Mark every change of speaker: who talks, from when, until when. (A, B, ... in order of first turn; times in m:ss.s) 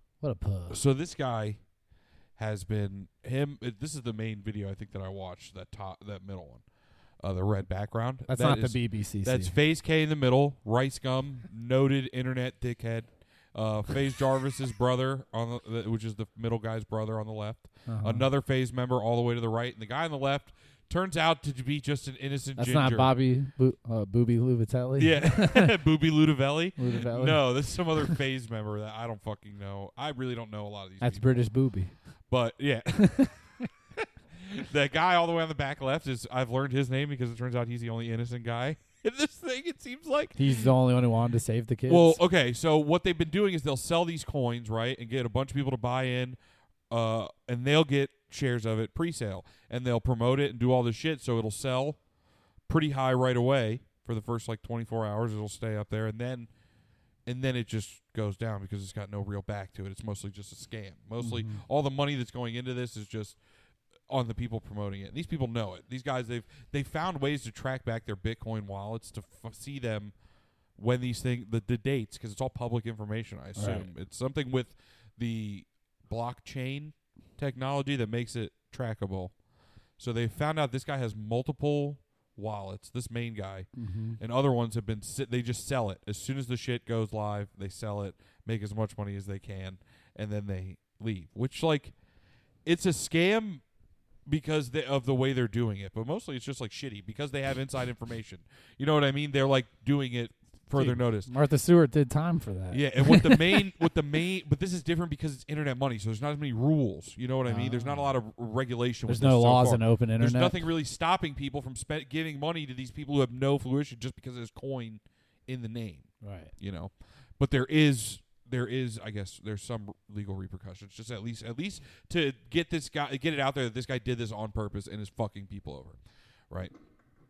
0:00.2-0:00.8 A
0:00.7-0:01.6 B
0:02.3-0:23.1 B
0:08.3-0:09.6 A
0:17.8-0:18.3 A
0:22.6-0:25.7 A
0:25.0-0:31.3 B
0:26.8-0:28.1 A
0:31.0-0:32.2 A
0:32.3-0:33.5 B
0:34.4-0:40.7 B
0:40.4-0:42.2 A
0:41.9-0:46.4 B
0:46.9-0:52.0 B
0:52.7-0:56.5 B
0:57.2-1:03.4 B
1:01.2-1:01.6 A
1:04.1-1:10.1 B
1:10.7-1:19.4 B
1:13.5-1:13.9 A
1:19.9-1:32.0 B
1:23.8-1:24.2 A
1:32.6-1:33.6 B
1:34.2-1:41.3 B
1:40.7-1:43.6 A
1:42.7-2:06.0 B
1:47.4-1:48.2 A
1:49.0-1:50.6 A
1:56.2-1:56.5 A